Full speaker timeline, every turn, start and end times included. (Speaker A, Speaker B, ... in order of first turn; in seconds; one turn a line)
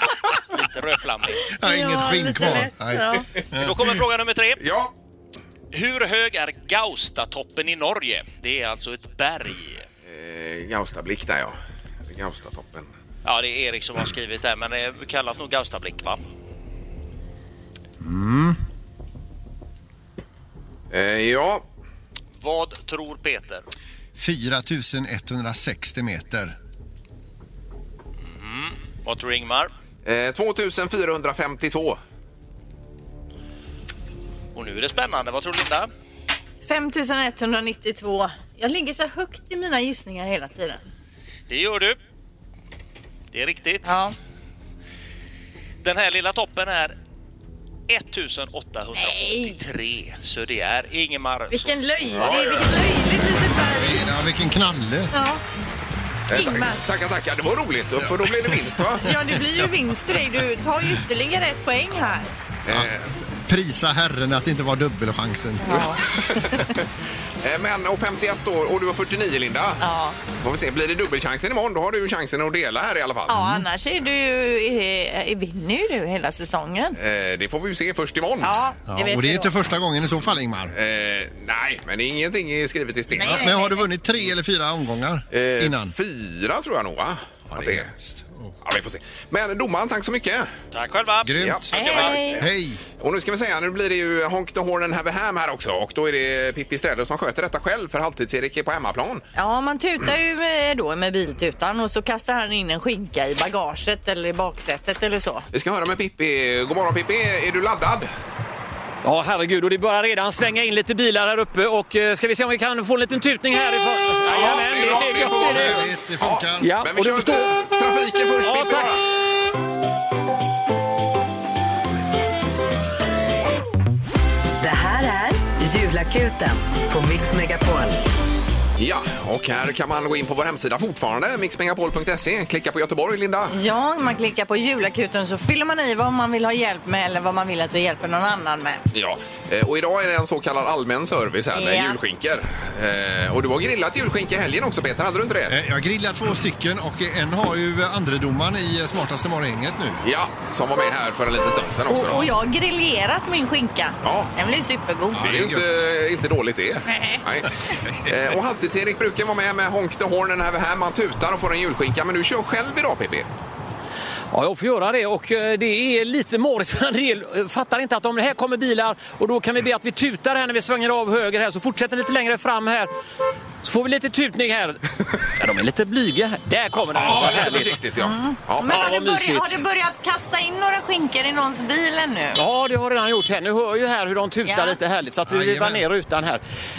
Speaker A: 0.5-1.4
Speaker B: 1.5-3.7
Speaker C: 1.6-3.3
Speaker A: 3.6-4.6
Speaker D: 4.6-4.9
Speaker A: 5.7-9.9
Speaker D: 10.1-11.6
Speaker D: 12.1-12.9
Speaker A: 13.2-16.2
Speaker B: 18.0-18.6
Speaker D: 20.9-21.6
Speaker A: 22.4-23.6
Speaker B: 24.1-26.6
Speaker A: 28.2-29.7
Speaker D: 30.0-32.0
Speaker A: 34.5-35.9
Speaker C: 36.6-40.8
Speaker A: 41.5-42.0
Speaker A: 43.3-43.9
Speaker C: 43.8-44.1
Speaker A: 45.8-47.0
Speaker A: 47.9-52.9
Speaker C: 49.0-49.6
Speaker C: 51.5-54.0
Speaker D: 52.2-52.4
Speaker B: 53.7-55.1
Speaker C: 55.1-55.4
Speaker D: 56.3-59.1
Speaker C: 56.3-56.8
Speaker B: 58.0-59.7
Speaker C: 59.0-62.3
Speaker D: 62.6-62.9
Speaker B: 62.7-66.0
Speaker C: 65.6-66.6
Speaker D: 65.8-66.8
Speaker D: 67.4-73.5
Speaker C: 69.8-70.2
Speaker C: 73.3-77.0
Speaker B: 73.3-73.6
Speaker D: 77.0-78.6
Speaker C: 78.4-79.5
Speaker B: 78.9-80.7
Speaker D: 80.7-83.5
Speaker C: 83.1-83.9
Speaker B: 83.2-85.9
Speaker D: 85.3-87.9
Speaker B: 87.5-88.5
Speaker D: 88.6-90.5
Speaker A: 90.7-92.4
Speaker B: 91.2-91.7
Speaker D: 91.4-92.2
Speaker C: 91.7-92.4
Speaker B: 92.3-92.8
Speaker D: 93.0-99.2
Speaker C: 99.3-105.4
Speaker D: 105.5-108.1
Speaker E: 109.0-115.8
Speaker D: 114.3-119.0
Speaker B: 115.5-116.7
Speaker E: 116.6-117.5
Speaker E: 118.4-119.0
Speaker F: 124.6-128.0
Speaker D: 128.8-133.6
Speaker C: 133.5-138.8
Speaker D: 138.9-145.6
Speaker C: 141.5-142.0
Speaker B: 145.5-150.0
Speaker D: 150.0-152.3
Speaker C: 151.9-155.2
Speaker D: 154.0-154.3
Speaker B: 155.1-155.8
Speaker D: 155.2-163.3
Speaker C: 156.9-157.2
Speaker E: 164.3-172.9
Speaker E: 173.6-174.8
Speaker E: 175.4-177.8
Speaker D: 176.9-178.9
Speaker C: 178.0-182.4
Speaker E: 178.7-179.6
Speaker E: 182.3-186.4
Speaker C: 184.4-184.8
Speaker B: 185.3-185.8